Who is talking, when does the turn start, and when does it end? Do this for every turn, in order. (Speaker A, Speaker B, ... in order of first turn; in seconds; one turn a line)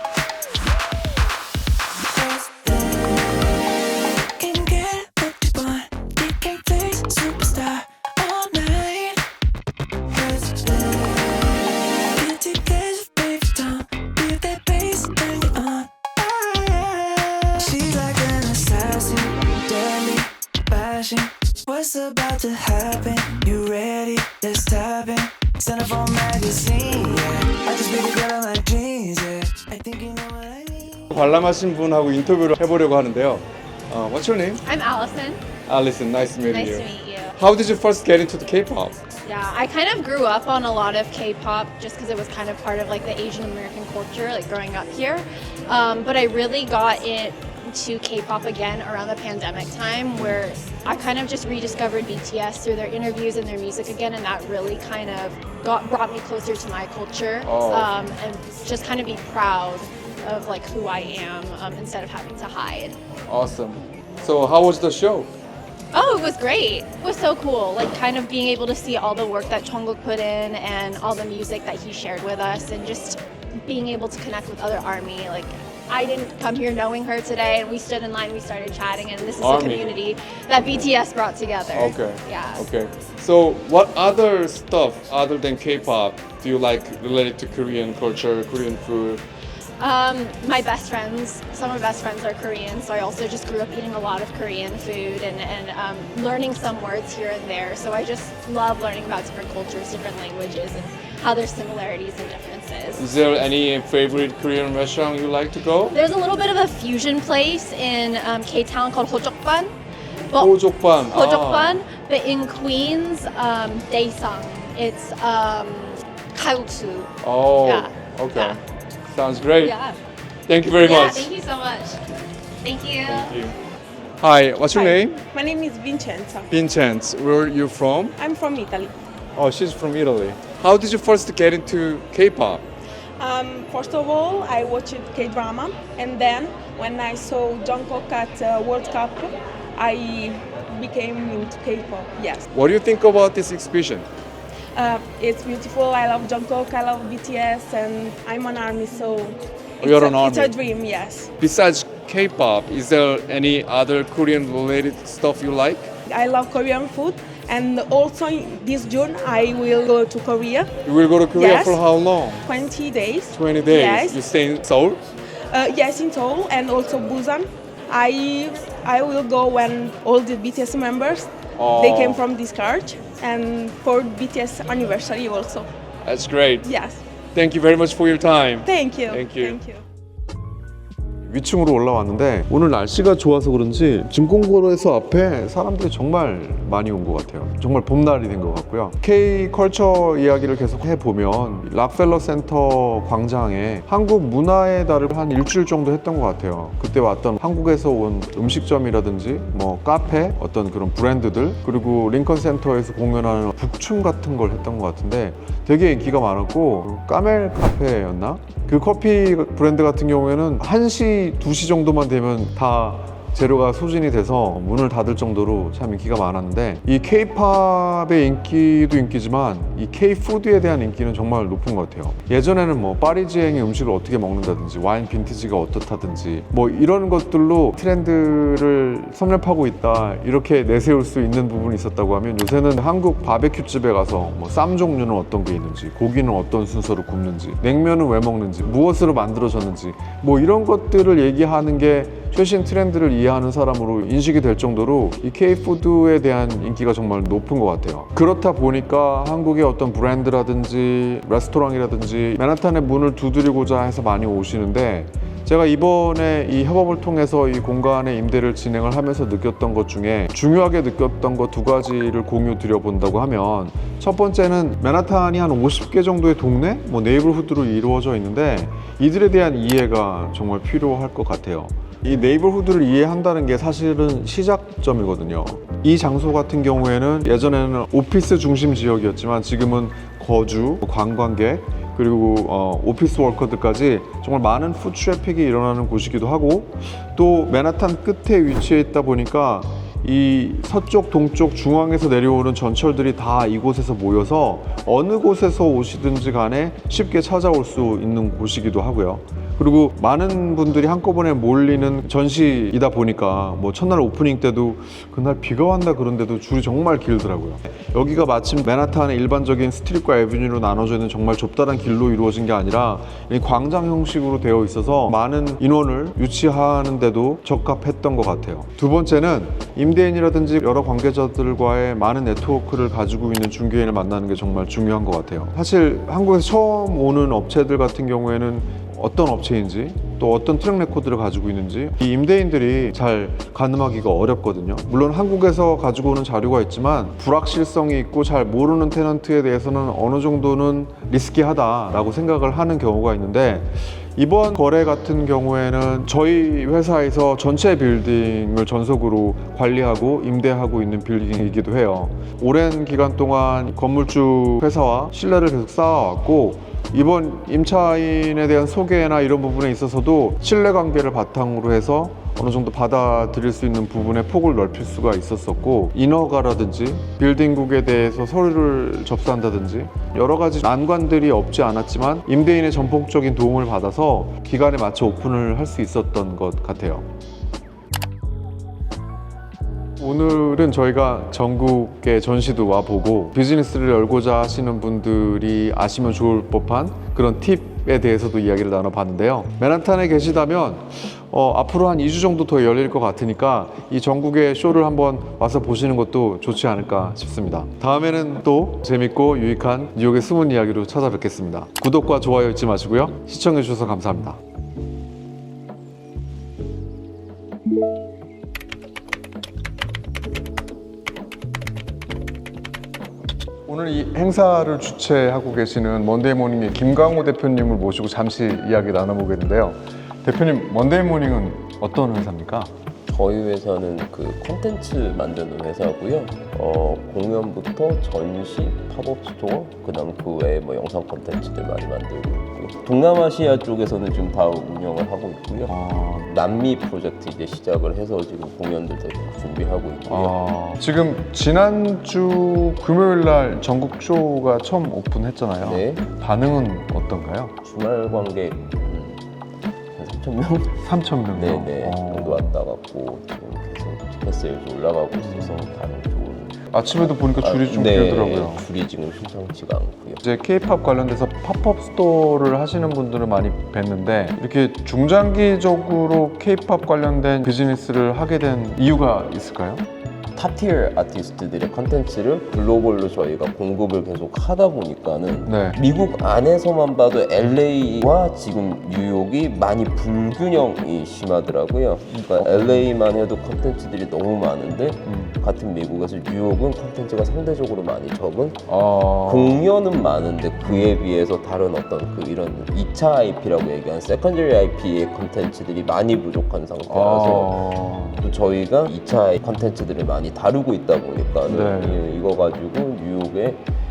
Speaker A: 2.1-3.5
Speaker A: 4.3-9.2
Speaker A: 10.1-31.1
Speaker B: 31.1-34.6
Speaker C: 34.6-35.4
Speaker B: 35.7-36.8
Speaker C: 36.5-37.3
Speaker B: 37.4-39.0
Speaker C: 39.2-63.0
Speaker B: 57.4-57.9
Speaker B: 63.3-65.3
Speaker C: 65.9-82.7
Speaker B: 79.4-80.0
Speaker B: 81.7-89.2
Speaker C: 89.8-103.1
Speaker B: 103.0-106.0
Speaker C: 105.9-109.7
Speaker C: 110.3-118.6
Speaker B: 110.4-111.8
Speaker B: 117.2-119.7
Speaker C: 119.6-120.0
Speaker B: 120.5-121.3
Speaker C: 120.8-122.0
Speaker C: 122.6-123.3
Speaker B: 123.1-123.5
Speaker B: 124.2-125.2
Speaker D: 124.7-126.5
Speaker B: 126.5-128.1
Speaker D: 128.2-128.9
Speaker B: 129.4-132.6
Speaker D: 133.2-142.4
Speaker B: 142.5-144.1
Speaker D: 144.8-151.3
Speaker B: 149.8-150.5
Speaker B: 151.4-155.9
Speaker D: 156.1-160.7
Speaker B: 160.9-162.4
Speaker D: 161.3-161.8
Speaker D: 162.4-164.2
Speaker B: 163.3-165.0
Speaker D: 165.5-175.7
Speaker B: 171.6-172.2
Speaker B: 176.1-176.7
Speaker D: 176.6-177.0
Speaker B: 177.3-179.6
Speaker D: 178.7-179.8
Speaker E: 181.3-377.1
Speaker E: 380.0-404.4
Speaker E: 413.7-422.7
Speaker F: 423.1-440.3
Speaker E: 435.7-436.3
Speaker E: 440.1-447.6
Speaker F: 445.6-446.1
Speaker F: 447.6-449.2
Speaker F: 449.9-450.8
Speaker E: 450.8-452.6
Speaker F: 451.3-460.2
Speaker E: 455.2-455.7
Speaker E: 456.7-458.7
Speaker E: 460.2-469.8
Speaker F: 470.4-497.6
Speaker E: 475.4-475.8
Speaker E: 482.2-482.9
Speaker E: 485.1-485.4
Speaker E: 488.7-489.6
Speaker E: 490.7-490.9
Speaker E: 496.9-498.3
Speaker F: 498.2-503.6
Speaker E: 501.5-502.0